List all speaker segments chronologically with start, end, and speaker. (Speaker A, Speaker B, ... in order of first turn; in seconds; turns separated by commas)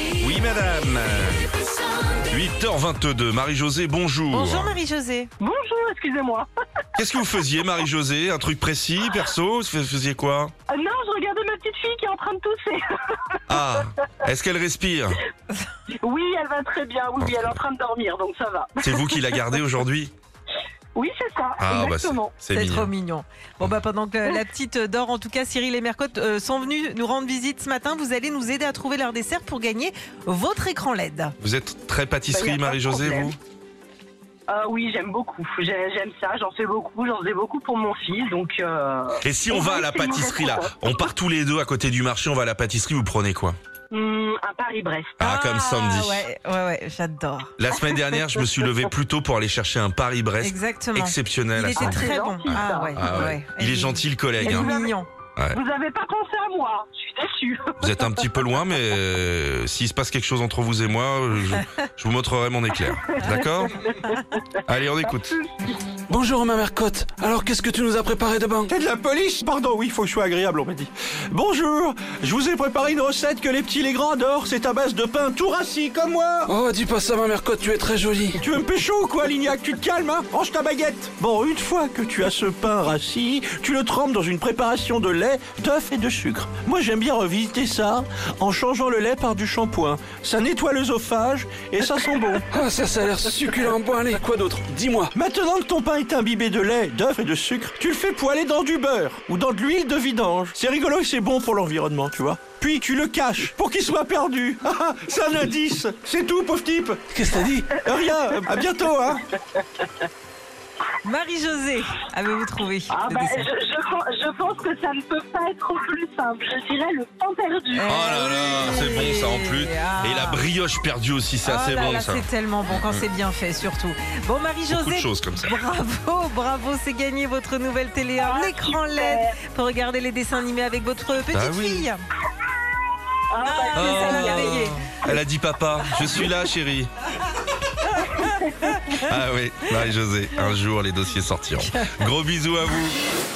Speaker A: 0.1-1.5, Speaker A: 2.3-4.8, Speaker B: 4.3-5.3, Speaker C: 5.4-6.5, Speaker A: 7.0-10.5, Speaker C: 10.7-12.8, Speaker A: 13.5-15.2, Speaker C: 15.9-19.4, Speaker A: 17.2-17.6, Speaker A: 18.8-20.1, Speaker C: 20.9-22.4, Speaker A: 21.6-22.9, Speaker B: 22.5-31.4, Speaker A: 31.4-33.4, Speaker C: 32.3-33.3, Speaker C: 34.5-40.9, Speaker A: 39.2-43.6, Speaker C: 43.9-45.2, Speaker A: 45.2-46.2, Speaker B: 45.2-47.5, Speaker A: 47.6-54.7, Speaker B: 50.4-55.1, Speaker C: 51.7-53.1, Speaker C: 54.4-55.0, Speaker C: 55.5-58.2, Speaker A: 57.8-63.8, Speaker C: 63.1-64.4, Speaker A: 64.7-65.3, Speaker C: 65.0-65.8, Speaker D: 66.1-68.7, Speaker E: 68.7-76.5, Speaker D: 76.5-78.4, Speaker E: 78.3-92.4, Speaker D: 92.5-95.1, Speaker E: 95.1-107.1, Speaker D: 107.1-107.8, Speaker E: 107.8-109.2, Speaker B: 111.0-113.5, Speaker C: 112.9-118.7, Speaker B: 117.7-120.4, Speaker A: 117.9-123.0, Speaker B: 121.4-132.0, Speaker A: 124.7-125.5, Speaker C: 128.2-129.3, Speaker A: 131.3-131.8, Speaker C: 133.3-135.2, Speaker B: 133.4-134.9, Speaker A: 133.7-136.9, Speaker B: 138.0-138.7, Speaker C: 138.2-138.8, Speaker A: 138.9-143.0